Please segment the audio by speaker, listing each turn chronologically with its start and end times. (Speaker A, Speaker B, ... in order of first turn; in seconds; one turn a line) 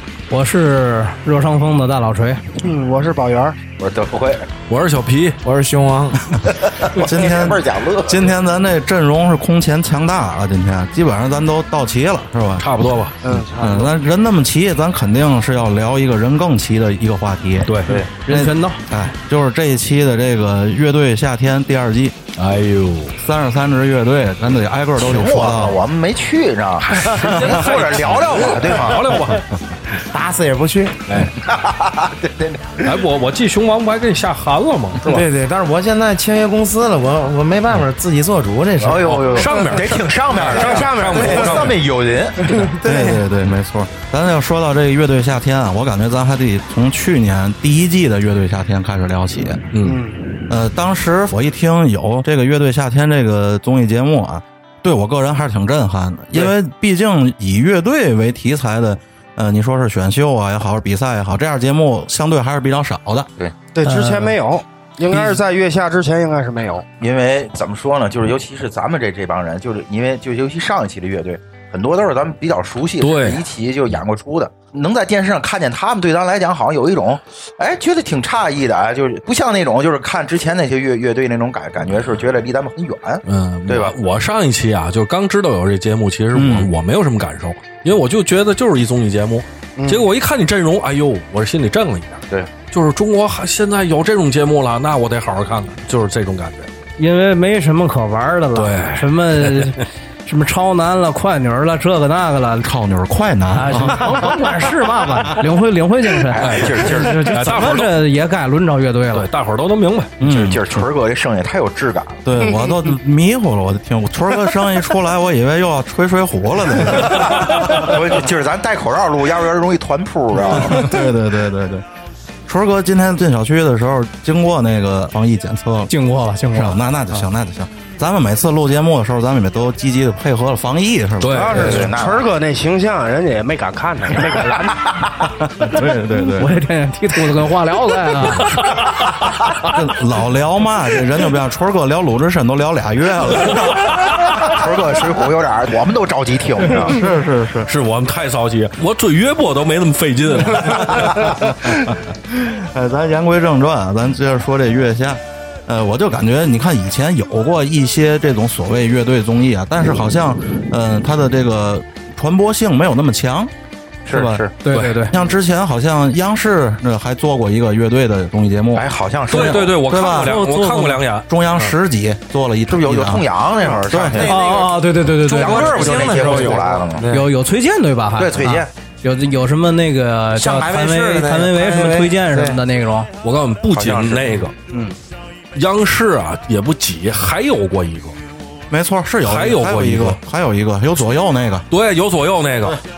Speaker A: 0.3-2.4
Speaker B: 2.6-3.6
Speaker C: 3.8-4.5
Speaker D: 4.7-5.4
Speaker E: 5.4-6.4
Speaker F: 6.3-12.7
Speaker C: 6.7-8.3
Speaker D: 12.6-13.3
Speaker B: 13.2-13.9
Speaker F: 13.6-22.1
Speaker D: 17.6-18.0
Speaker A: 18.2-18.8
Speaker D: 22.4-23.2
Speaker F: 23.2-25.8
Speaker C: 25.0-29.3
Speaker D: 26.9-29.4
Speaker E: 29.9-31.0
Speaker D: 31.1-31.4
Speaker C: 31.4-33.0
Speaker D: 32.8-35.2
Speaker E: 35.1-39.3
Speaker C: 38.8-42.7
Speaker D: 39.0-41.8
Speaker B: 40.4-41.7
Speaker F: 42.8-49.7
Speaker D: 49.7-50.0
Speaker B: 49.8-50.4
Speaker F: 50.5-63.3
Speaker B: 63.7-66.8
Speaker A: 63.8-64.3
Speaker D: 65.1-65.4
Speaker C: 67.0-84.0
Speaker D: 73.0-73.4
Speaker D: 83.3-96.7
Speaker F: 86.3-86.7
Speaker B: 89.8-90.0
Speaker A: 97.0-102.7
Speaker D: 98.5-99.7
Speaker F: 102.6-104.3
Speaker A: 103.5-109.3
Speaker C: 106.3-107.3
Speaker D: 106.4-108.0
Speaker D: 109.1-110.2
Speaker F: 110.2-110.9
Speaker C: 110.2-112.2
Speaker F: 112.2-117.9
Speaker C: 117.0-121.0
Speaker D: 117.0-117.6
Speaker F: 120.4-121.8
Speaker F: 122.5-125.9
Speaker A: 125.9-126.8
Speaker F: 126.5-131.9
Speaker D: 131.2-131.9
Speaker B: 131.3-134.8
Speaker C: 131.6-132.3
Speaker C: 134.7-135.1
Speaker F: 135.4-136.6
Speaker A: 136.2-138.6
Speaker D: 138.3-139.5
Speaker F: 139.7-144.6
Speaker C: 144.1-147.0
Speaker F: 146.7-147.7
Speaker D: 147.7-151.4
Speaker F: 150.6-163.5
Speaker C: 164.1-164.5
Speaker F: 164.1-164.4
Speaker A: 164.6-165.1
Speaker D: 164.7-165.0
Speaker F: 165.1-170.4
Speaker C: 168.8-169.7
Speaker D: 169.3-171.7
Speaker A: 170.2-171.0
Speaker F: 171.3-173.2
Speaker C: 172.7-174.4
Speaker F: 173.9-174.3
Speaker E: 174.0-174.8
Speaker A: 174.2-176.1
Speaker C: 175.2-177.1
Speaker E: 175.3-177.2
Speaker D: 175.9-176.6
Speaker A: 177.1-183.1
Speaker C: 178.2-178.7
Speaker E: 180.3-182.6
Speaker D: 183.2-184.5
Speaker C: 183.7-184.4
Speaker F: 184.7-185.0
Speaker D: 185.5-188.2
Speaker F: 188.7-191.7
Speaker D: 189.2-190.2
Speaker D: 191.7-192.8